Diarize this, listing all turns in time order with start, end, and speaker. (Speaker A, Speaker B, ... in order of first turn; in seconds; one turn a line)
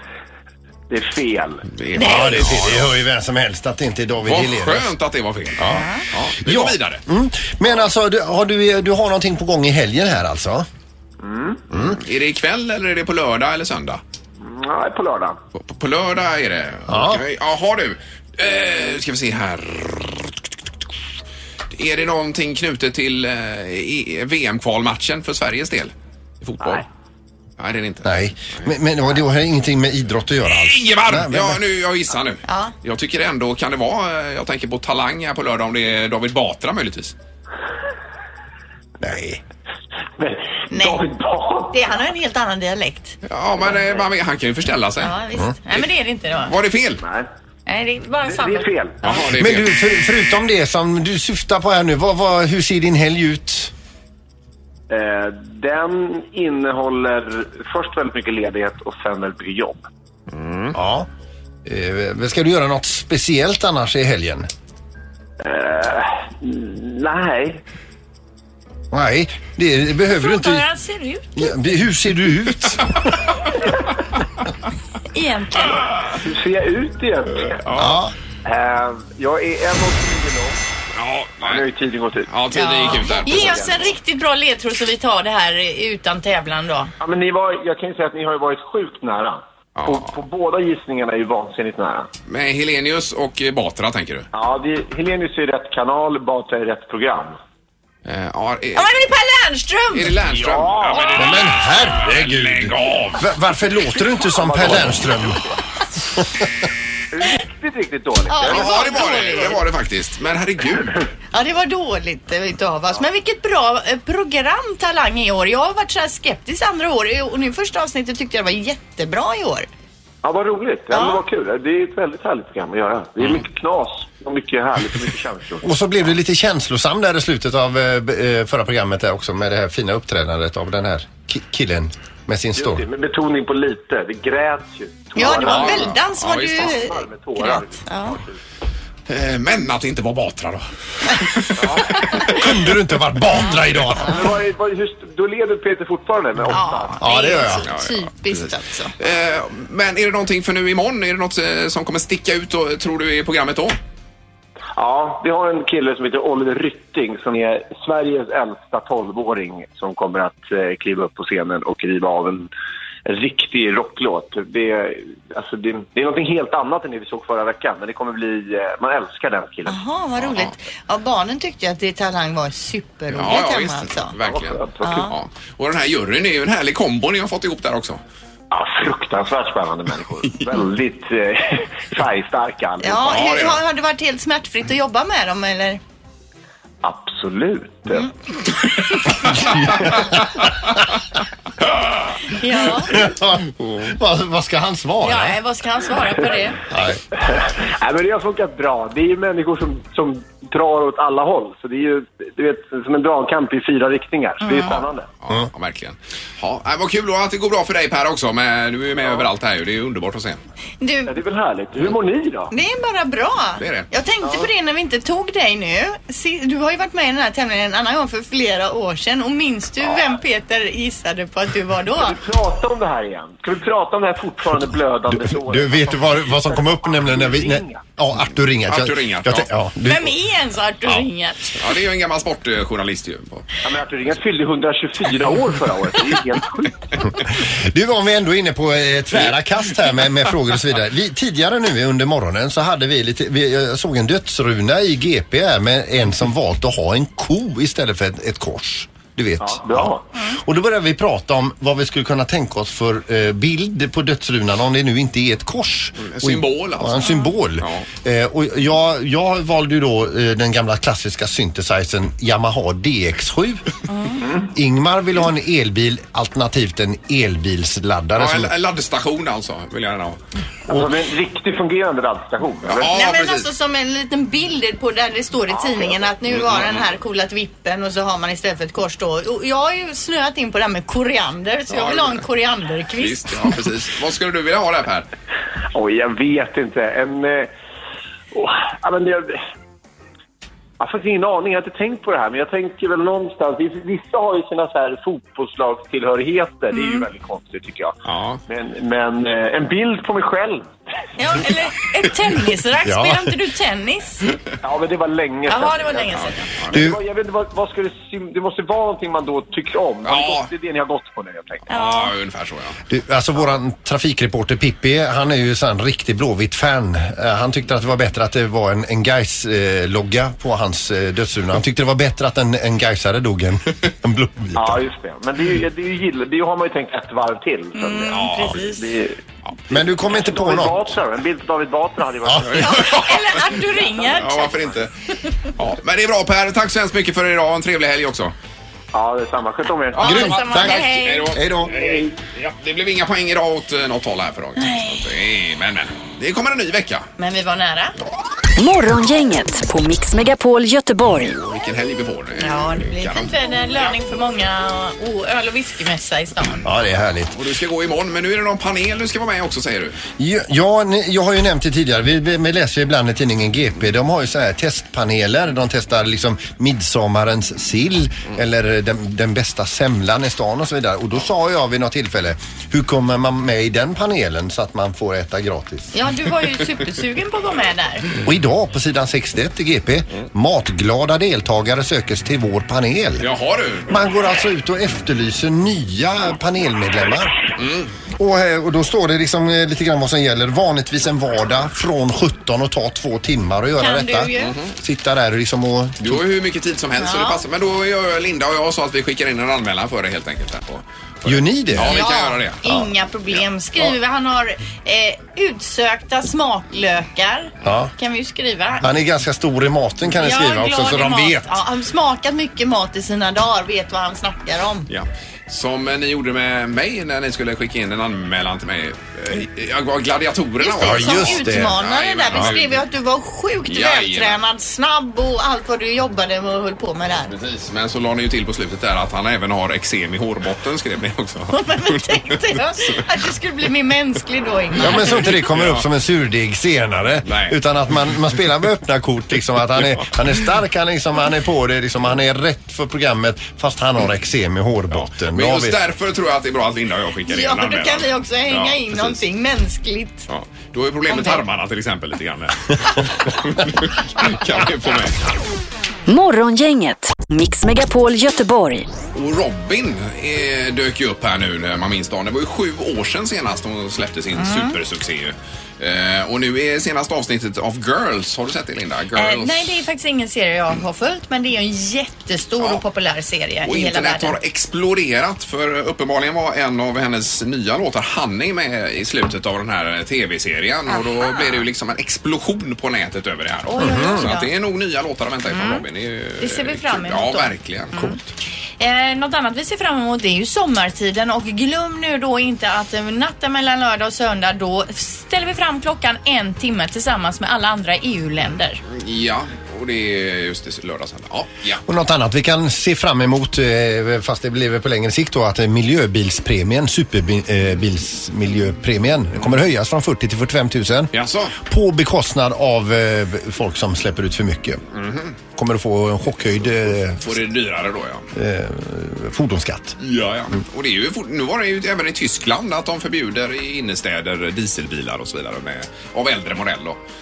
Speaker A: 0.9-1.7
Speaker B: 1.7-2.9
Speaker C: 2.0-4.9
Speaker D: 2.0-2.4
Speaker B: 4.2-7.0
Speaker D: 5.7-6.0
Speaker C: 6.4-10.7
Speaker A: 11.2-11.6
Speaker B: 11.7-14.0
Speaker A: 14.4-15.4
Speaker B: 15.6-20.3
Speaker C: 16.9-17.2
Speaker B: 21.7-26.9
Speaker B: 27.6-28.1
Speaker C: 28.0-31.6
Speaker B: 30.5-37.1
Speaker D: 32.5-32.7
Speaker C: 39.0-39.4
Speaker A: 40.2-42.0
Speaker D: 40.7-41.0
Speaker D: 41.7-43.2
Speaker B: 43.2-45.1
Speaker A: 43.6-44.0
Speaker D: 45.0-46.5
Speaker B: 46.5-47.0
Speaker A: 47.0-47.3
Speaker D: 47.7-48.7
Speaker A: 48.2-49.1
Speaker B: 49.0-49.8
Speaker C: 49.3-53.7
Speaker A: 54.9-59.8
Speaker B: 60.4-60.7
Speaker C: 60.7-61.1
Speaker C: 61.6-64.5
Speaker A: 65.4-67.6
Speaker C: 68.9-70.7
Speaker D: 70.3-71.2
Speaker C: 71.4-73.1
Speaker D: 75.1-75.8
Speaker A: 76.2-77.6
Speaker B: 77.6-78.0
Speaker C: 77.7-78.1
Speaker A: 78.5-80.6
Speaker B: 81.0-81.7
Speaker A: 81.4-84.0
Speaker B: 82.3-83.9
Speaker D: 82.5-86.9
Speaker A: 87.0-92.1
Speaker B: 89.8-90.1
Speaker B: 92.3-94.3
Speaker A: 94.3-97.4
Speaker B: 98.0-98.9
Speaker D: 98.8-100.1
Speaker B: 99.9-103.2
Speaker A: 100.3-101.4
Speaker C: 101.2-105.4
Speaker A: 104.3-105.5
Speaker A: 107.1-109.6
Speaker D: 108.3-109.6
Speaker B: 108.4-111.0
Speaker D: 111.3-119.7
Speaker A: 120.2-125.7
Speaker D: 120.9-121.2
Speaker C: 125.6-132.8
Speaker A: 132.6-138.4
Speaker D: 135.2-138.2
Speaker B: 135.4-136.7
Speaker B: 139.1-142.6
Speaker A: 141.6-142.0
Speaker C: 142.3-144.3
Speaker A: 144.0-147.1
Speaker D: 146.5-148.9
Speaker C: 147.0-147.7
Speaker B: 147.7-148.4
Speaker B: 149.0-153.8
Speaker A: 154.8-162.5
Speaker A: 163.1-169.8
Speaker D: 169.7-174.1
Speaker B: 173.1-178.0
Speaker A: 174.2-175.1
Speaker D: 174.8-175.1
Speaker A: 178.5-183.4
Speaker D: 182.8-185.8
Speaker B: 183.1-183.6
Speaker A: 186.8-188.1
Speaker C: 189.3-190.1
Speaker D: 192.3-193.0
Speaker C: 192.9-195.4
Speaker D: 195.0-196.6
Speaker C: 196.7-197.0
Speaker A: 197.1-205.1
Speaker D: 204.4-204.8
Speaker B: 205.2-210.4
Speaker D: 210.8-211.2
Speaker A: 211.1-212.5
Speaker D: 212.5-222.2
Speaker B: 213.6-213.9
Speaker A: 214.2-214.5
Speaker A: 221.9-227.8
Speaker C: 225.1-230.2
Speaker B: 228.7-229.5
Speaker D: 229.8-231.6
Speaker B: 231.6-233.5
Speaker A: 233.6-236.9
Speaker C: 237.2-263.6
Speaker A: 249.4-250.0
Speaker B: 256.0-257.9
Speaker D: 263.9-264.2
Speaker A: 264.2-264.5
Speaker C: 264.4-268.5
Speaker B: 268.2-270.2
Speaker A: 270.7-272.9
Speaker B: 272.7-273.5
Speaker D: 272.8-283.4
Speaker A: 275.5-276.1
Speaker B: 281.7-282.2
Speaker B: 283.0-285.1
Speaker A: 285.7-287.5
Speaker A: 288.3-289.4
Speaker A: 290.8-297.9
Speaker D: 296.7-297.1
Speaker B: 298.1-298.4
Speaker A: 298.5-300.7
Speaker D: 301.2-304.2
Speaker C: 302.9-303.3
Speaker A: 304.6-311.7
Speaker D: 305.5-306.5
Speaker C: 306.7-307.0
Speaker B: 310.0-310.5
Speaker B: 311.7-312.8
Speaker D: 311.7-312.1
Speaker C: 312.9-324.8
Speaker A: 324.6-329.2
Speaker D: 327.8-328.9
Speaker B: 328.1-328.8
Speaker C: 329.7-331.0
Speaker A: 330.0-332.8
Speaker C: 332.2-332.6
Speaker B: 332.5-333.4
Speaker D: 332.6-334.6
Speaker B: 334.1-334.9
Speaker B: 335.6-338.3
Speaker A: 338.9-340.4
Speaker B: 339.9-347.1
Speaker D: 340.0-341.4
Speaker C: 340.0-341.8
Speaker D: 344.6-345.0
Speaker D: 347.2-347.9
Speaker E: 348.6-351.4
Speaker B: 351.3-353.3
Speaker D: 352.4-356.6
Speaker C: 356.6-357.4
Speaker B: 357.3-360.0
Speaker C: 360.2-375.9
Speaker D: 375.9-378.1
Speaker C: 378.2-383.3
Speaker B: 383.2-384.0
Speaker C: 383.9-387.4
Speaker B: 387.6-387.9
Speaker C: 388.2-396.2
Speaker D: 393.8-394.5
Speaker B: 394.4-394.7
Speaker B: 396.0-402.6
Speaker D: 397.0-397.4
Speaker C: 401.2-402.1
Speaker D: 401.8-408.9
Speaker C: 407.6-407.9
Speaker C: 408.8-411.6
Speaker D: 410.1-414.9
Speaker B: 414.9-422.8
Speaker D: 420.6-427.3
Speaker C: 420.8-421.8
Speaker B: 423.7-424.4
Speaker B: 427.3-433.0
Speaker D: 431.5-435.2
Speaker B: 434.8-435.9
Speaker C: 434.8-445.8
Speaker B: 437.2-437.6
Speaker B: 444.9-449.2
Speaker D: 447.3-450.3
Speaker B: 450.3-455.2
Speaker D: 451.1-451.4
Speaker E: 456.1-458.9
Speaker B: 459.1-469.8
Speaker D: 464.4-464.8
Speaker D: 469.1-474.4
Speaker B: 473.6-488.2
Speaker D: 480.9-481.6
Speaker D: 483.7-484.5
Speaker C: 483.8-484.3
Speaker D: 485.5-485.9
Speaker D: 486.4-488.2
Speaker D: 488.8-498.8
Speaker B: 498.9-501.8
Speaker C: 501.9-514.8
Speaker B: 511.1-511.6
Speaker B: 515.0-515.3
Speaker C: 515.5-517.4
Speaker B: 517.2-518.2
Speaker C: 518.3-520.0
Speaker B: 520.0-527.0